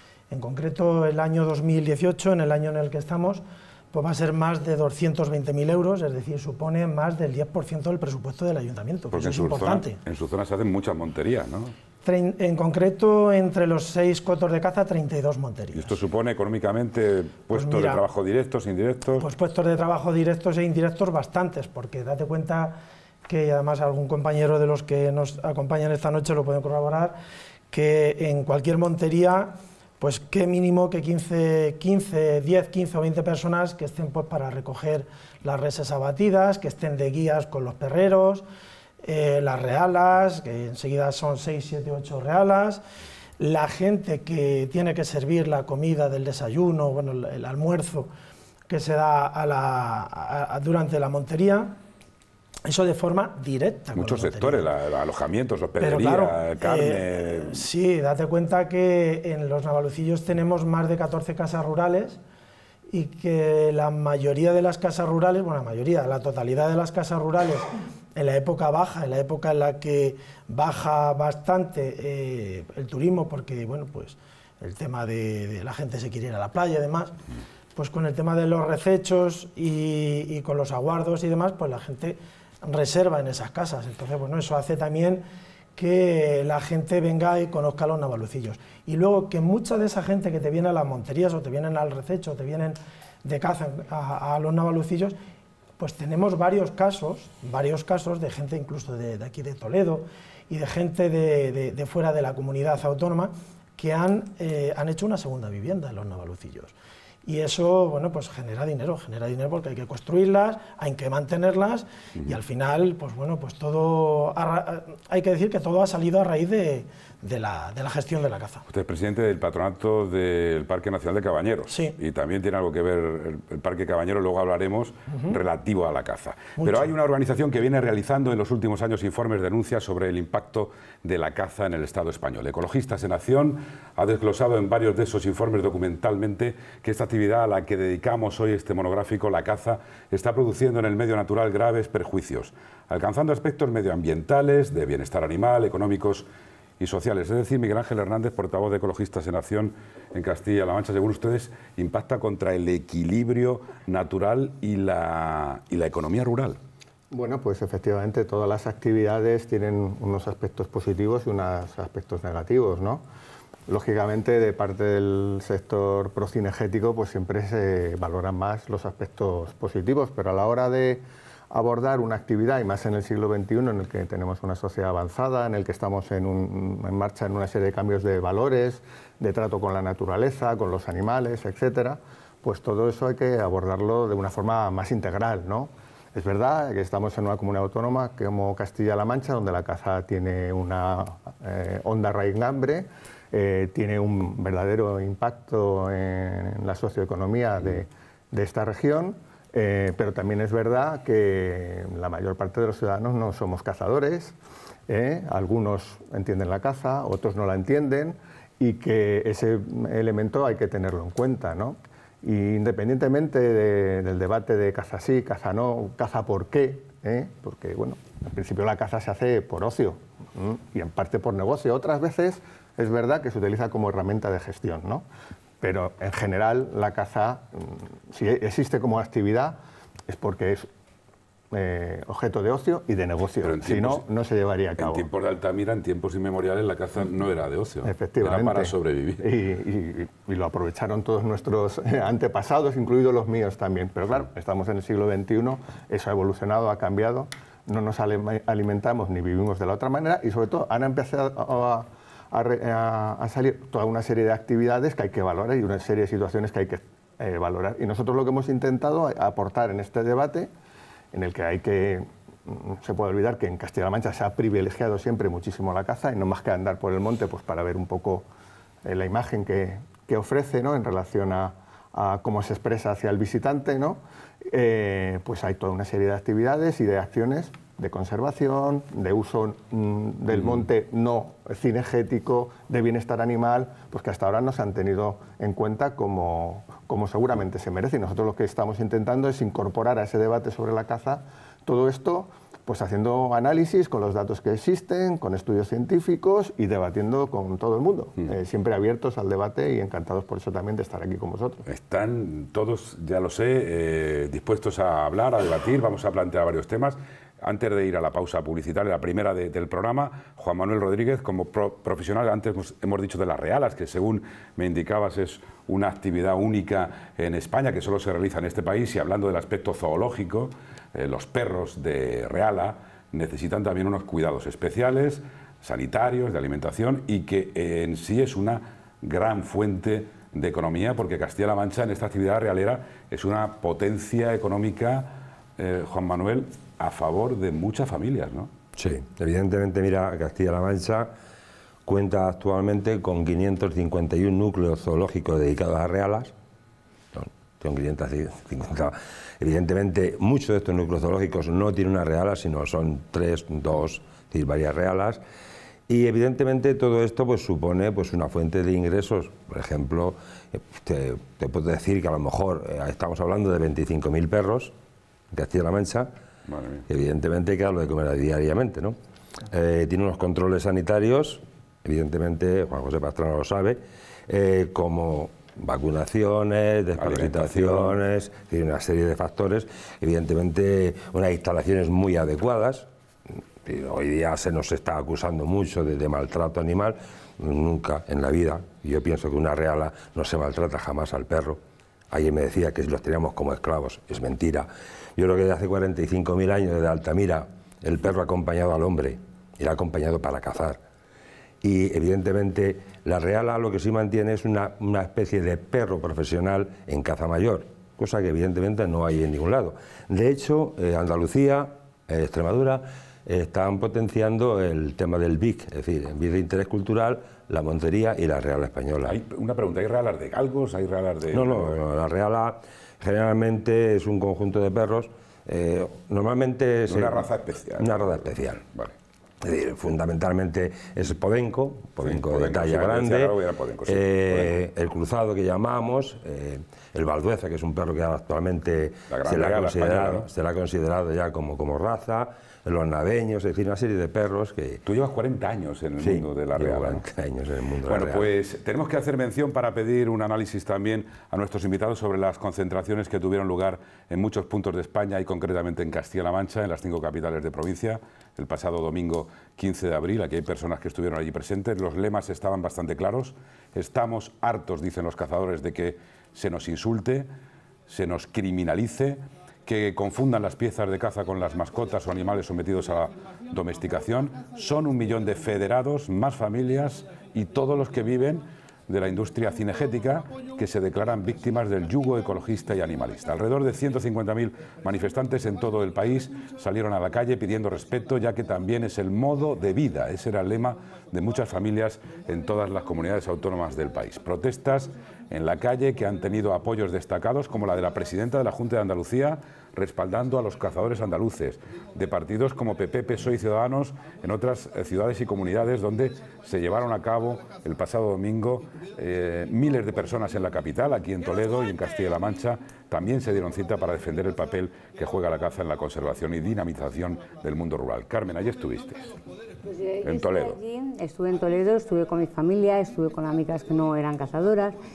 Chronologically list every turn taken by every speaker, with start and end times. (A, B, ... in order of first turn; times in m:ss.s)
0:00.3-0:10.0 A
0:09.1-0:11.7 B
0:12.0-0:16.0 A
0:15.7-0:19.3 B
0:17.5-0:18.0 A
0:19.2-0:27.2 A
0:27.7-0:38.4 A
0:39.0-0:42.8 A
0:43.4-0:48.1 A
0:48.7-0:51.8 A
0:52.7-0:54.7 A
0:54.0-0:57.6 B
0:55.8-1:02.2 A
1:02.9-1:17.2 A
1:17.7-1:25.2 A
1:25.8-1:35.2 A
1:35.8-1:58.6 A
1:58.7-2:26.3 B
2:01.7-2:02.0 A
2:06.6-2:06.9 A
2:26.8-2:36.6 B
2:37.1-2:43.0 C
2:43.7-3:24.4 C
3:24.9-3:45.0 C
3:45.6-3:49.6 C
3:50.1-3:50.7 C
3:51.5-3:55.1 C
3:53.4-3:54.0 B
3:54.8-3:59.2 B
3:57.8-4:20.5 C
4:21.1-4:28.3 C
4:28.8-5:01.6 C
5:01.6-5:38.5 B
5:38.7-5:41.1 D
5:41.8-5:46.3 D
5:47.1-5:55.2 D
5:55.9-6:04.7 D
6:05.3-6:06.1 D
6:06.5-6:06.8 B
6:06.9-6:09.0 D
6:09.5-6:22.9 D
6:17.0-6:18.0 B
6:23.6-6:31.6 D
6:32.1-6:40.8 D
6:41.6-6:59.2 D
6:59.0-7:01.7 B
7:01.3-7:07.3 D
7:06.9-7:08.9 B
7:07.8-7:08.6 D
7:09.4-7:13.3 D
7:12.0-7:14.5 B
7:13.8-7:24.8 D
7:19.1-7:20.3 B
7:24.8-7:27.0 B
7:26.0-7:28.3 D
7:27.9-7:47.3 B
7:47.9-8:39.1 B
8:39.6-8:44.7 E
8:40.0-8:40.6 B